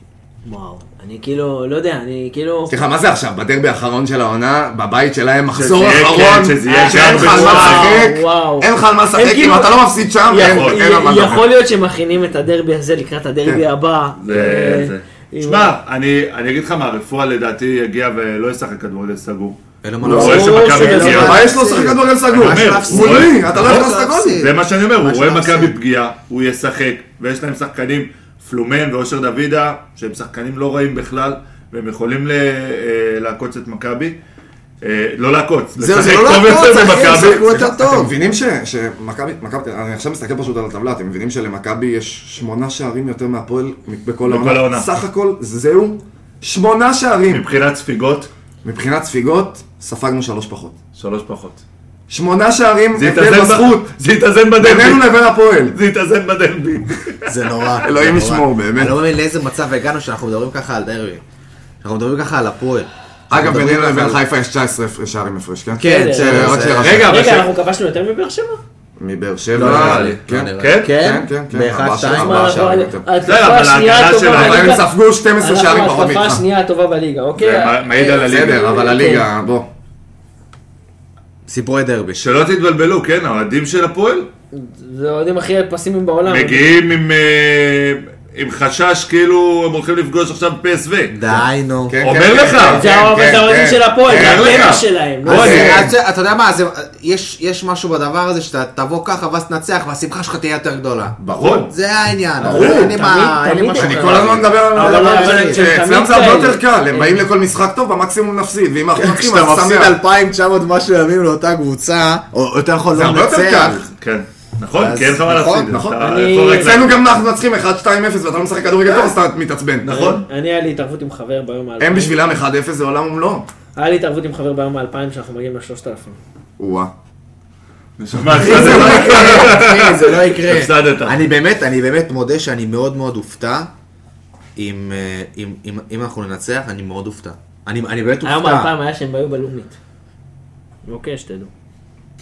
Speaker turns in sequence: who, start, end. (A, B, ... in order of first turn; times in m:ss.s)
0:00.4-0:02.7 A
0:02.7-0:11.5 B
0:05.6-0:08.1 C
0:06.6-0:15.7 A
0:10.3-0:10.8 C
0:14.2-0:21.4 C
0:19.8-0:25.8 D
0:20.0-0:20.5 B
0:20.1-0:21.4 A
0:21.0-0:24.4 B
0:22.3-0:34.2 C
0:34.8-0:37.6 C
0:35.8-0:38.1 D
0:37.5-0:47.4 B
0:44.3-0:44.9 C
0:47.3-0:48.3 C
0:48.6-0:50.8 B
0:51.0-0:51.6 C
0:52.1-0:53.9 B
0:53.0-0:57.6 C
0:54.6-0:55.8 B
0:57.3-1:01.2 D
0:57.8-0:59.0 B
1:01.8-1:04.2 D
1:03.3-1:07.2 B
1:05.8-1:07.0 D
1:05.8-1:08.6 A
1:06.8-1:07.5 C
1:09.0-1:13.1 B
1:09.5-1:12.8 D
1:09.6-1:11.0 C
1:12.1-1:14.9 A
1:13.2-1:14.8 C
1:14.3-1:16.4 B
1:15.4-1:19.3 A
1:17.4-1:19.0 C
1:18.0-1:19.7 B
1:21.5-1:22.2 D
1:22.2-1:24.3 C
1:24.5-1:26.8 A
1:26.3-1:31.2 C
1:31.1-1:32.0 D
1:31.9-1:36.0 B
1:32.0-1:32.9 C
1:32.8-1:35.8 A
1:34.0-1:34.8 C
1:35.2-1:41.2 D
1:41.2-1:41.7 B
1:41.4-1:41.7 C
1:41.7-1:45.6 D
1:42.4-1:43.0 B
1:42.4-1:47.2 A
1:42.5-1:42.8 C
1:43.7-1:50.0 B
1:49.0-1:53.8 D
1:52.9-1:53.9 B
1:53.8-1:56.9 C
1:54.7-1:55.7 D
1:55.7-2:00.2 B
1:56.0-1:56.8 A
1:59.8-2:00.2 C
1:59.9-2:02.2 A
2:01.8-2:03.5 B
2:03.8-2:06.2 A
2:06.6-2:06.9 B
2:08.0-2:11.2 C
2:08.4-2:13.7 D
2:08.4-2:09.5 B
2:14.6-2:18.7 D
2:18.2-2:19.8 A
2:20.9-2:21.5 A